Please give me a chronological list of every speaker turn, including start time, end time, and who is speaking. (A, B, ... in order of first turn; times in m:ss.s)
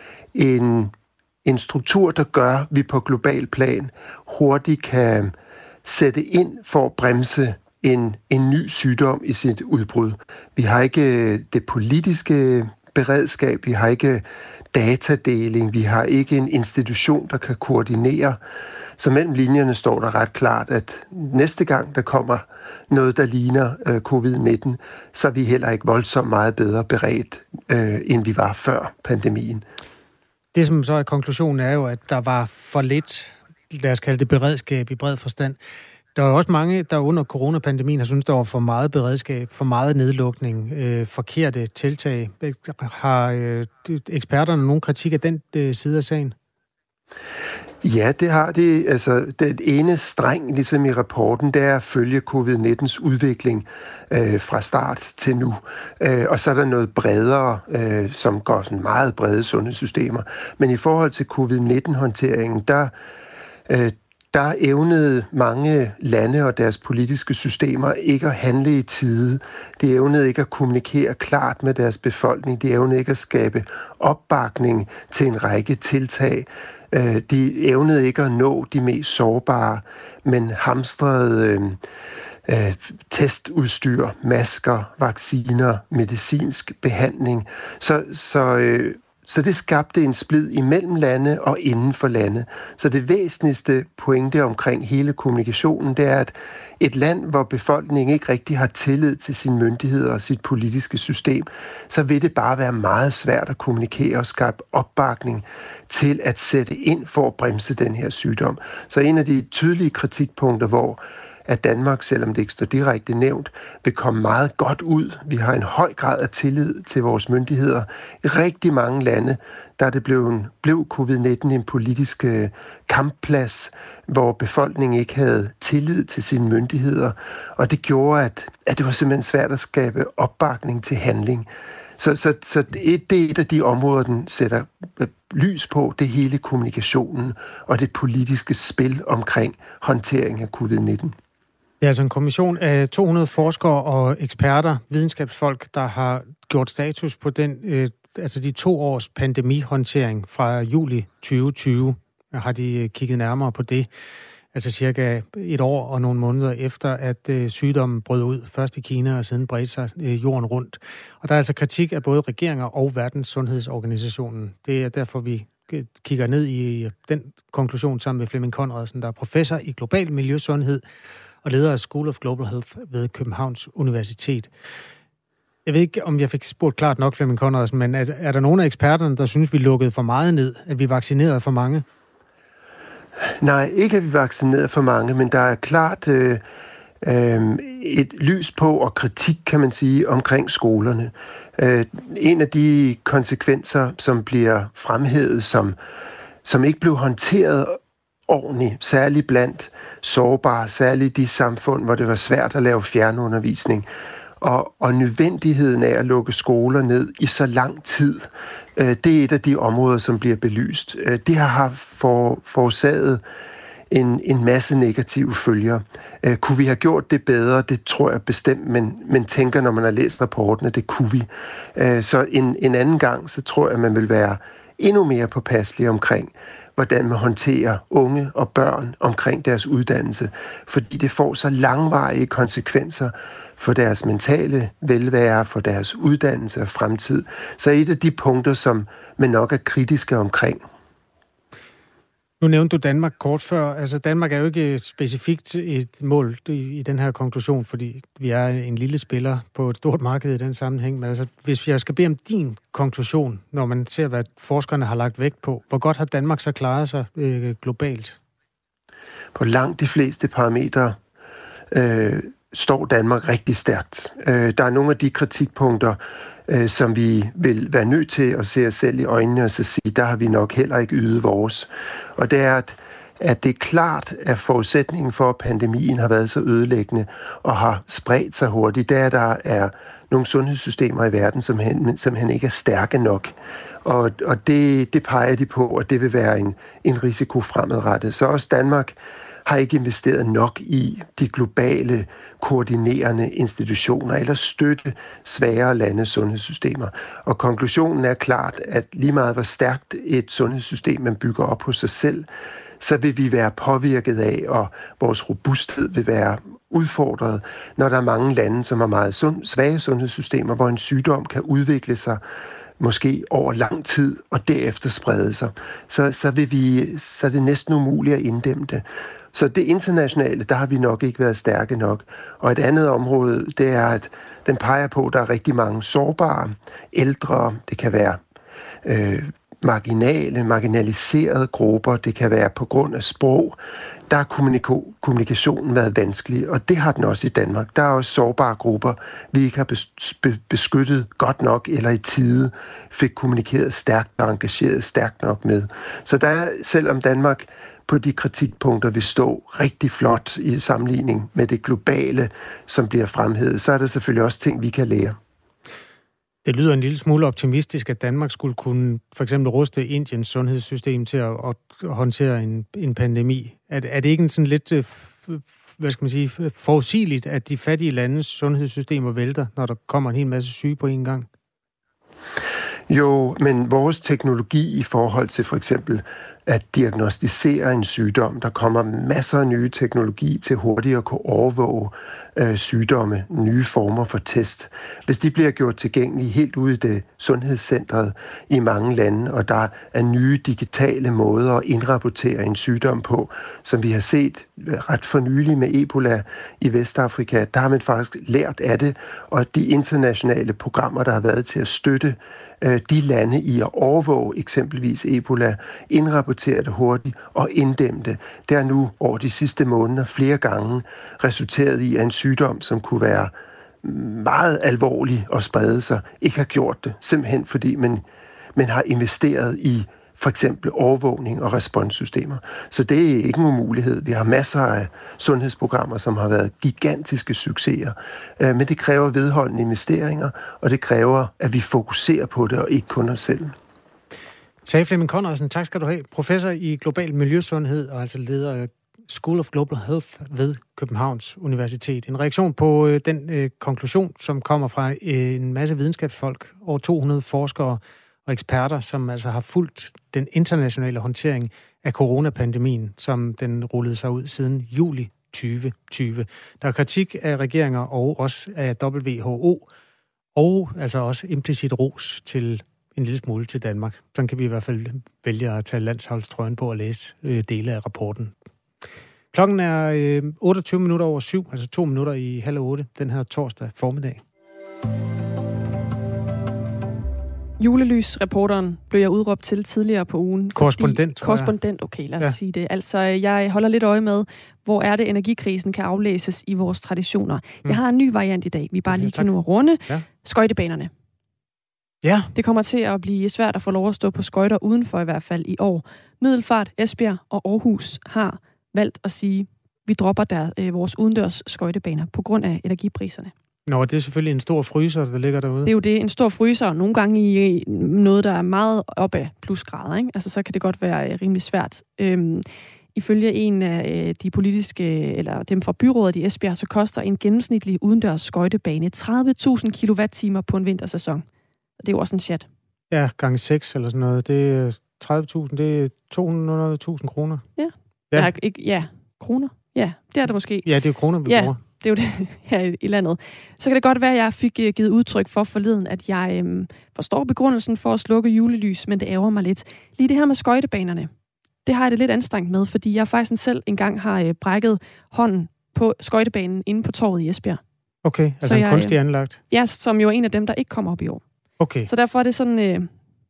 0:00.3-0:18.4 A
0:19.0-0:29.6 A
0:30.5-0:35.6 B
0:36.1-0:46.3 B
0:47.8-1:02.9 A
1:03.7-1:21.8 A
1:22.4-2:21.2 A
2:21.8-2:33.9 B
2:34.5-2:50.8 B
2:51.4-2:54.5 B
2:55.6-3:01.8 B
3:03.3-3:06.4 A
3:07.0-3:15.8 A
3:16.4-3:23.9 A
3:24.4-3:33.2 A
3:33.9-4:00.6 A
4:02.4-4:18.2 B
4:19.3-4:21.0 A
4:21.7-5:02.3 A
5:02.8-5:12.2 A
5:12.8-5:28.2 A
5:28.8-5:55.2 A
5:56.4-6:11.3 B
6:12.9-6:58.0 A
6:58.5-7:13.5 A
7:14.6-7:39.7 B
7:40.3-7:48.3 B
7:49.3-7:54.2 B
7:57.6-8:10.9 C
8:00.6-8:01.5 B
8:08.9-8:09.3 B
8:12.0-8:12.3 B
8:12.3-8:23.3 C
8:23.6-8:25.7 B
8:25.6-8:41.2 C
8:41.8-8:42.5 C
8:42.9-8:47.4 B
8:47.6-8:50.7 C
8:50.6-8:51.6 B
8:51.2-9:01.1 C
9:01.6-9:07.6 C
9:08.0-9:09.4 B
9:08.4-9:09.0 C
9:09.5-9:11.2 C
9:11.6-9:11.9 B
9:11.8-9:12.9 C